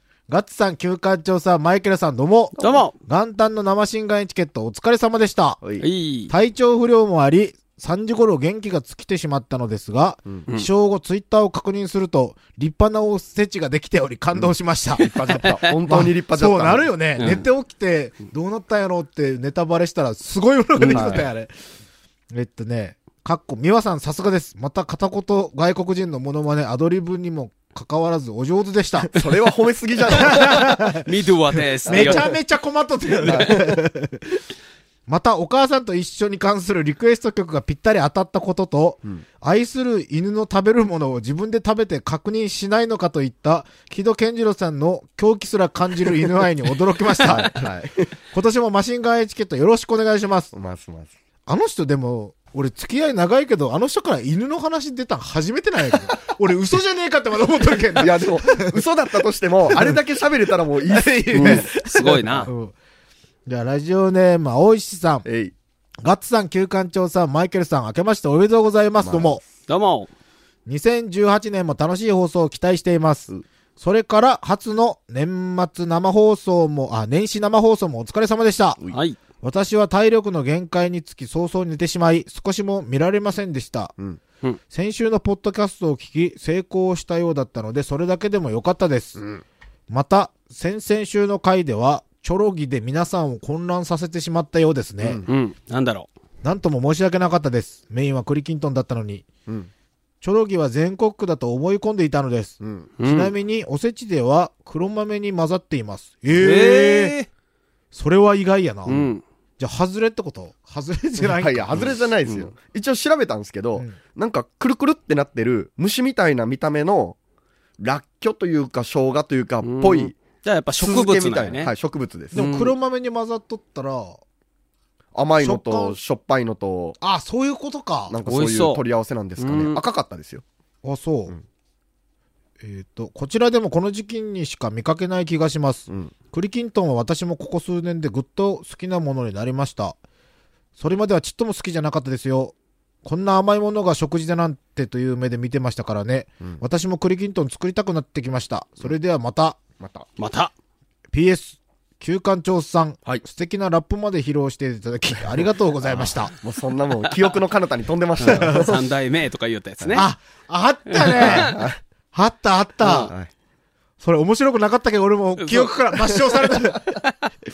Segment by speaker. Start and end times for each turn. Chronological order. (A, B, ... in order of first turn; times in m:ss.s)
0:00.3-0:05.6 A
0:02.6-0:03.0 B
0:05.8-0:06.3 B
0:06.3-0:21.5 A
0:15.0-0:17.3 C
0:15.4-0:15.8 B
0:17.2-0:17.4 B
0:20.8-0:21.2 B
0:20.9-0:21.2 C
0:22.3-0:29.2 A
0:29.1-0:30.8 C
0:30.1-0:31.1 A
0:30.2-0:32.3 B
0:31.9-0:34.2 A
0:31.9-0:32.3 C
0:33.2-0:33.8 C
0:33.3-0:33.5 B
0:35.1-0:47.7 A
0:47.2-0:48.1 C
0:48.3-0:50.5 A
0:50.5-0:51.1 C
0:51.5-0:58.8 A
0:58.0-1:02.5 C
0:59.7-1:00.0 A
1:00.9-1:02.7 A
1:01.4-1:02.5 B
1:03.5-1:05.2 A
1:05.2-1:05.5 C
1:06.0-1:09.4 A
1:09.0-1:09.4 C
1:09.7-1:10.1 B
1:10.7-1:18.8 A
1:18.9-1:19.2 B
1:19.4-1:23.9 A
1:24.7-1:29.2 A
1:29.2-1:29.4 C
1:29.9-1:35.2 A
1:35.0-1:35.3 C
1:35.3-1:36.1 B
1:36.4-1:39.3 A
1:40.2-1:47.2 A
1:42.6-1:42.9 C
1:43.0-1:43.3 B
1:46.4-1:47.3 B
1:47.9-1:52.0 A
1:48.9-1:49.2 B
1:51.2-1:57.2 C
1:57.8-2:00.2 C
1:59.6-2:01.7 B
2:00.8-2:02.4 C
2:02.3-2:04.2 A
2:02.4-2:02.7 B
2:05.1-2:07.0 C
2:05.4-2:06.0 A
2:07.0-2:08.2 A
2:08.1-2:10.4 C
2:08.3-2:08.8 B
2:09.4-2:09.8 B
2:10.8-2:11.3 A
2:12.6-2:20.0 A
2:20.8-2:29.6 A
2:29.8-2:30.1 C
2:30.2-2:30.5 B
2:31.1-2:36.3 A
2:35.9-2:38.8 C
2:38.2-2:40.1 B
2:38.3-2:38.7 A
2:40.0-2:41.6 A
2:40.9-2:41.6 B
2:41.1-2:41.8 C
2:42.1-2:43.1 A
2:42.9-2:43.3 C
2:44.0-2:46.9 A
2:45.4-2:45.8 B